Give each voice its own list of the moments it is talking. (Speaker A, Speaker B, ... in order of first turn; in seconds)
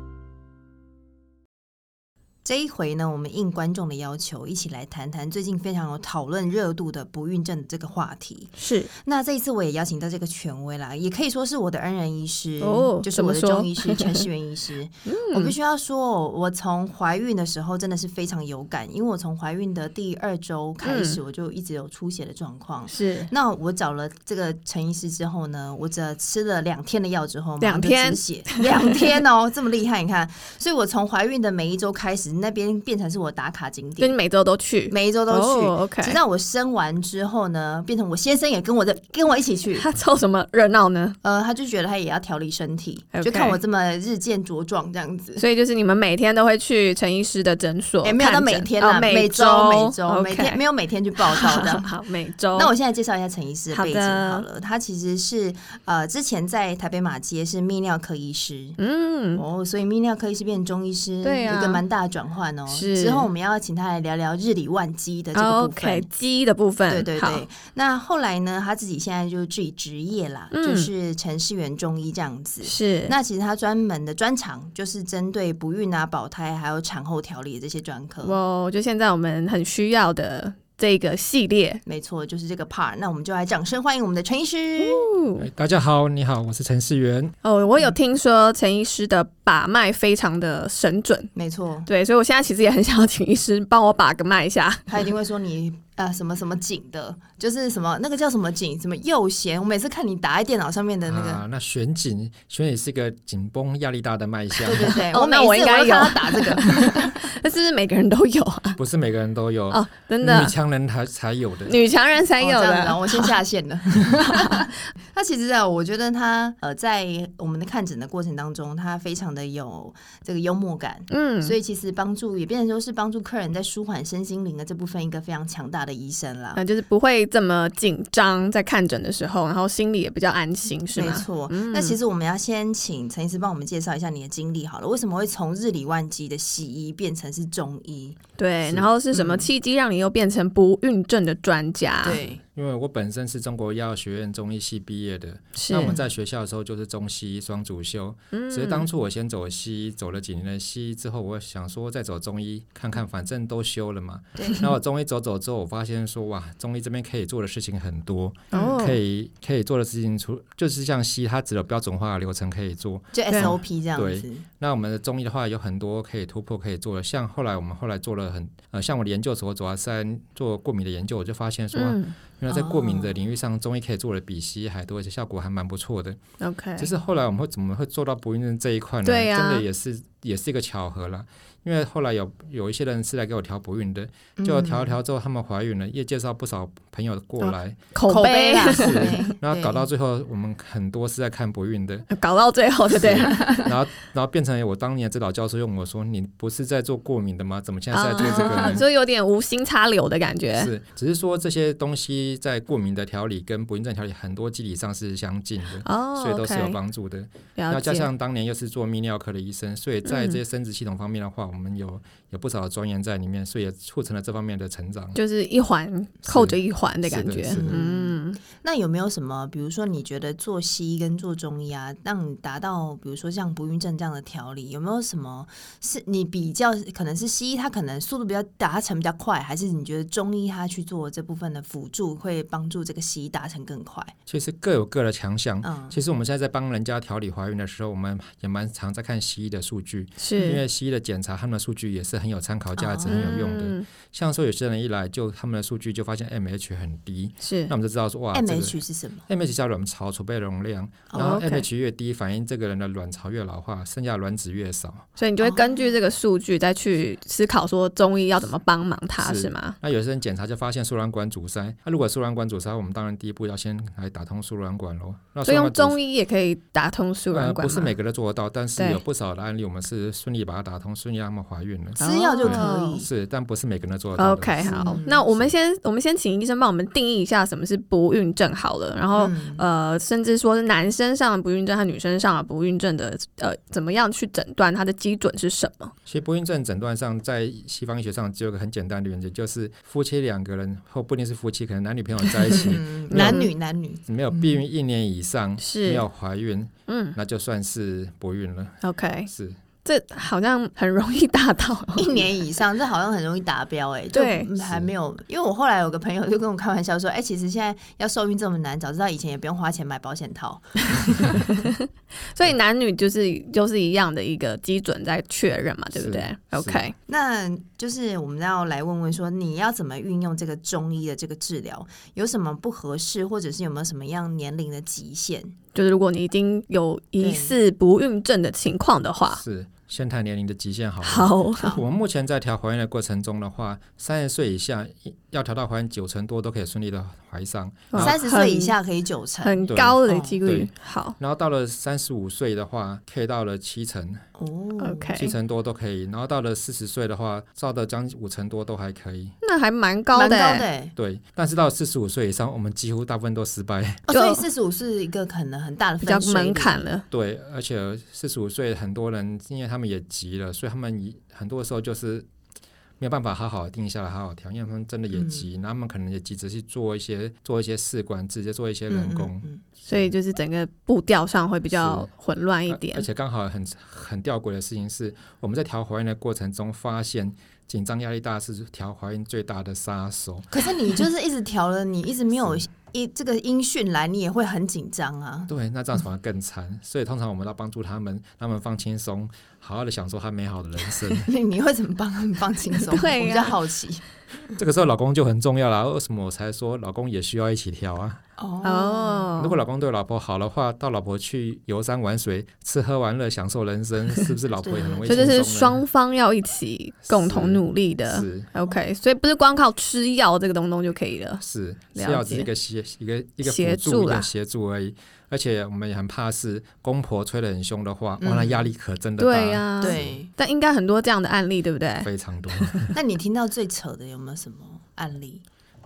Speaker A: 2.4-34.1, 34.9-39.8, 41.2-45.4, 48.0-51.9, 52.5-58.8, 59.3-66.1, 66.9-78.3, 81.8-85.1, 91.3-91.9, 94.9-101.4, 104.6-107.3, 112.4-126.6, 130.9-138.2, 139.1-139.5, 142.0-142.4, 154.4-154.7, 158.5-158.8, 163.1-164.4, 172.5-173.2, 184.4-185.0, 188.1-189.8, 193.2-193.7, 198.2-198.8, 217.5-234.1, 235.6-236.0, 240.3-240.6, 242.8-243.4, 248.3-249.2, 251.1-251.4, 255.4-255.8, 272.0-273.1, 274.6-275.2, 279.1-279.6, 292.5-294.6, 302.0-311.6, 317.1-325.5, 327.2-327.6, 337.9-340.4, 344.4-345.2, 350.1-350.9, 354.1-356.9, 365.1-365.5, 368.9-369.6, 380.5-385.5, 391.2-394.0, 398.4-399.3, 404.6-405.4, 418.2-418.7, 419.8-420.3, 422.9-425.4
Speaker B: 8.6-8.9, 12.6-14.2, 15.1-15.5, 20.8-21.2, 22.9-23.3, 27.6-28.9, 34.0-36.2, 39.8-41.2, 43.1-43.6, 45.4-50.6, 51.2-52.7, 53.7-54.4, 58.8-59.4, 61.2-61.8, 62.7-63.3, 65.3-67.4, 70.5-70.9, 72.6-73.1, 78.2-81.8, 84.8-85.5, 87.4-91.3, 91.9-95.0, 104.7-108.8, 109.7-110.5, 111.7-113.3, 114.3-114.7, 121.1-121.5, 126.5-132.0, 138.4-142.2, 145.6-145.9, 148.3-148.9, 158.5-159.0, 171.7-172.1, 176.4-176.9, 179.0-179.6, 187.4-189.3, 192.1-193.6, 197.9-200.7, 205.8-206.8, 207.6-208.1, 210.0-210.4, 215.2-218.4, 240.2-240.6, 243.1-243.8, 247.4-247.7, 251.1-251.7, 255.2-259.8, 265.4-267.9, 272.0-273.0, 274.1-285.9, 293.1-293.5, 295.6-296.1, 296.9-297.1, 298.8-299.3, 299.8-302.2, 304.1-304.5, 312.3-316.9, 325.7-329.4, 331.0-331.8, 337.9-338.7, 339.4-341.2, 344.8-345.3, 349.4-350.7, 354.1-354.4, 356.0-357.0, 369.9-373.1, 392.8-393.6, 398.6-399.6, 405.1-411.4, 411.9-412.5, 413.4-414.3, 419.2-422.8
Speaker C: 85.3-87.3, 101.0-105.0, 108.8-111.8, 142.0-176.2, 176.8-187.8, 188.7-192.1, 192.9-198.9, 200.5-215.2, 216.2-217.8, 234.3-255.1, 259.2-266.0, 267.3-275.5, 286.1-293.4, 294.1-299.6, 304.6-304.9, 315.9-316.9, 329.3-338.1, 339.7-344.2, 345.1-349.3, 350.9-354.0, 357.1-362.3, 363.0-370.1, 371.7-372.1, 372.7-380.5, 385.5-391.3, 394.6-398.2, 399.4-405.8, 407.1-408.5, 411.4-420.2, 422.0-422.9